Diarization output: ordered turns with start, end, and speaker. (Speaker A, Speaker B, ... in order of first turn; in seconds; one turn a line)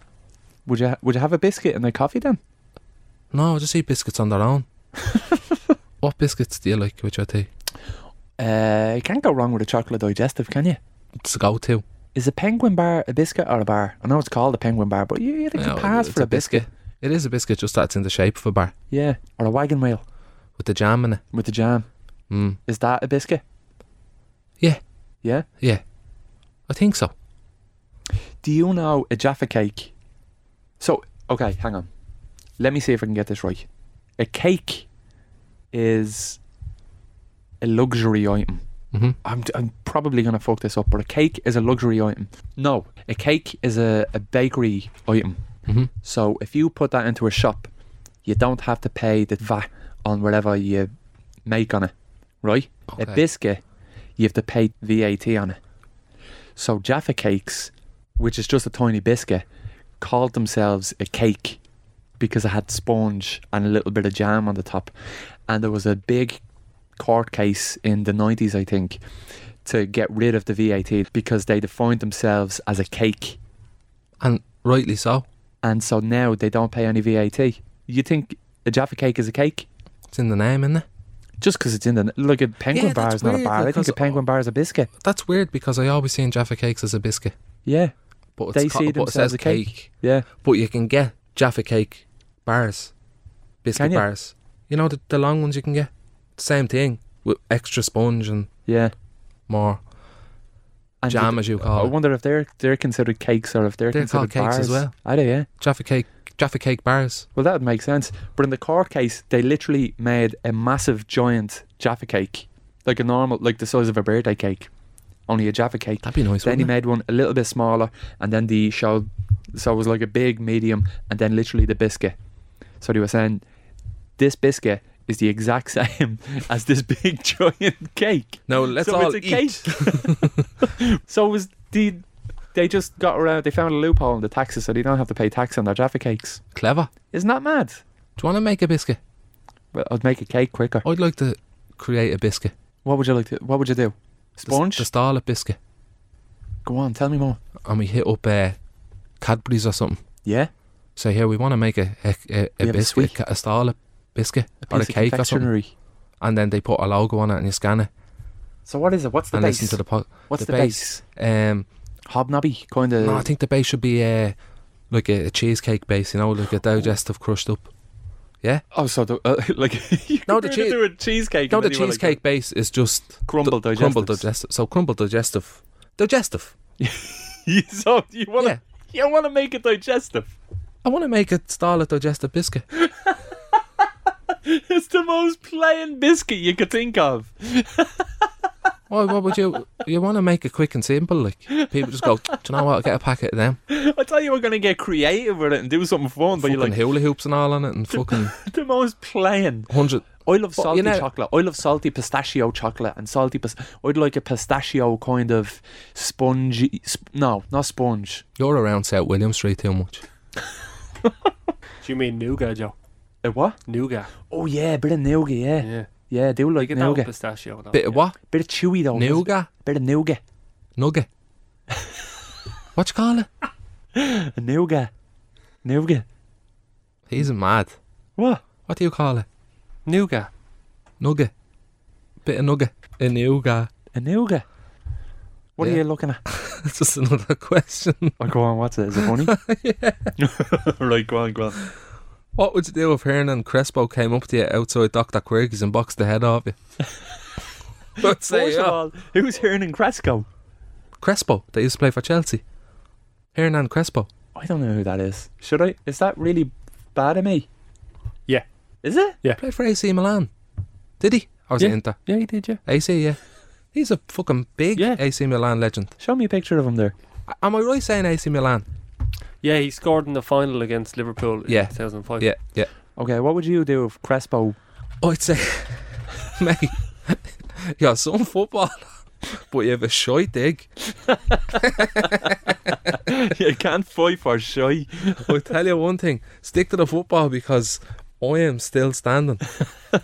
Speaker A: 0.7-2.4
Speaker B: 3.3-4.7
Speaker B: 6.0-7.5
Speaker A: 8.4-10.8
Speaker B: 11.2-11.8
Speaker A: 12.1-16.7
Speaker B: 15.5-18.7
Speaker A: 18.9-20.0
Speaker B: 20.6-21.2
Speaker A: 21.3-21.9
Speaker B: 22.3-22.6
Speaker A: 22.7-23.4
Speaker B: 26.7-27.1
Speaker A: 28.4-29.9
Speaker A: 30.8-31.9
Speaker A: 32.6-33.6
Speaker A: 34.2-34.9
Speaker A: 35.7-36.4
Speaker A: 37.6-38.6
Speaker A: 39.2-45.4
Speaker A: 46.0-47.7
Speaker A: 48.2-50.9
Speaker A: 51.5-51.9
Speaker A: 52.4-53.6
Speaker B: 52.9-53.2
Speaker A: 54.2-55.6
Speaker A: 56.5-59.5
Speaker A: 60.0-61.6
Speaker A: 62.2-64.9
Speaker A: 65.5-66.4
Speaker A: 67.0-69.0
Speaker A: 69.6-73.4
Speaker B: 74.2-75.2
Speaker A: 75.6-79.7
Speaker B: 80.1-80.9
Speaker A: 81.4-84.9
Speaker B: 82.7-84.2
Speaker B: 85.0-87.3
Speaker A: 87.6-87.9
Speaker B: 88.4-92.9
Speaker A: 88.5-90.3
Speaker B: 93.6-98.5
Speaker A: 93.7-94.0
Speaker A: 98.7-98.9
Speaker B: 99.5-99.8
Speaker A: 101.0-105.5
Speaker B: 101.1-101.9
Speaker B: 103.9-104.9
Speaker B: 105.6-107.3
Speaker A: 107.3-114.7
Speaker A: 115.3-122.2
Speaker B: 116.0-116.7
Speaker A: 122.8-123.4
Speaker A: 124.2-136.4
Speaker B: 128.5-130.4
Speaker B: 136.5-136.9
Speaker A: 137.1-137.8
Speaker B: 138.2-139.0
Speaker A: 139.7-140.8
Speaker B: 140.8-142.5
Speaker A: 142.8-144.9
Speaker B: 144.4-145.6
Speaker A: 146.6-147.4
Speaker B: 147.6-148.6
Speaker B: 149.2-150.0
Speaker A: 150.2-150.5
Speaker B: 150.9-155.5
Speaker A: 152.6-153.1
Speaker A: 154.7-155.7
Speaker B: 156.2-157.9
Speaker A: 158.7-161.0
Speaker B: 159.3-161.7
Speaker A: 162.1-163.3
Speaker B: 163.0-164.4
Speaker B: 164.9-167.7
Speaker A: 168.7-172.2
Speaker B: 170.3-170.8
Speaker B: 171.5-176.5
Speaker A: 173.2-174.2
Speaker A: 176.8-180.3
Speaker B: 180.8-182.6
Speaker A: 182.9-183.2
Speaker A: 184.4-188.1
Speaker B: 188.9-193.6
Speaker A: 191.5-192.4
Speaker A: 193.7-196.8
Speaker B: 196.4-198.3
Speaker A: 197.9-199.7
Speaker B: 199.7-201.1
Speaker A: 200.2-208.2
Speaker B: 208.4-210.0
Speaker C: 211.8-212.8
Speaker A: 213.2-213.6
Speaker C: 213.7-214.1
Speaker A: 214.3-217.1
Speaker C: 215.6-215.9
Speaker C: 216.6-218.0
Speaker B: 217.7-218.2
Speaker A: 218.2-220.2
Speaker B: 218.9-219.5
Speaker B: 220.8-221.1
Speaker B: 222.8-223.3
Speaker A: 224.0-224.9
Speaker A: 225.6-226.0
Speaker B: 227.1-227.8
Speaker A: 228.2-228.4
Speaker B: 228.7-229.2
Speaker C: 229.8-230.3
Speaker B: 231.0-231.3
Speaker B: 232.2-233.7
Speaker A: 233.9-234.4
Speaker A: 235.6-236.2
Speaker B: 235.6-238.3
Speaker A: 238.2-239.3
Speaker B: 238.9-240.1
Speaker A: 240.2-241.6
Speaker B: 242.3-246.6
Speaker B: 248.0-248.8
Speaker A: 248.0-250.3
Speaker B: 251.0-252.4
Speaker B: 253.3-254.1
Speaker A: 254.3-257.5
Speaker A: 258.8-259.1
Speaker B: 259.4-260.3
Speaker B: 261.0-262.0
Speaker A: 261.6-262.6
Speaker B: 262.6-263.2
Speaker B: 263.7-265.9
Speaker A: 266.0-266.9
Speaker B: 267.3-268.6
Speaker C: 269.4-272.3
Speaker B: 271.5-272.7
Speaker A: 273.0-274.6
Speaker B: 275.0-280.7
Speaker B: 281.5-282.4
Speaker A: 282.9-285.4
Speaker B: 285.2-289.6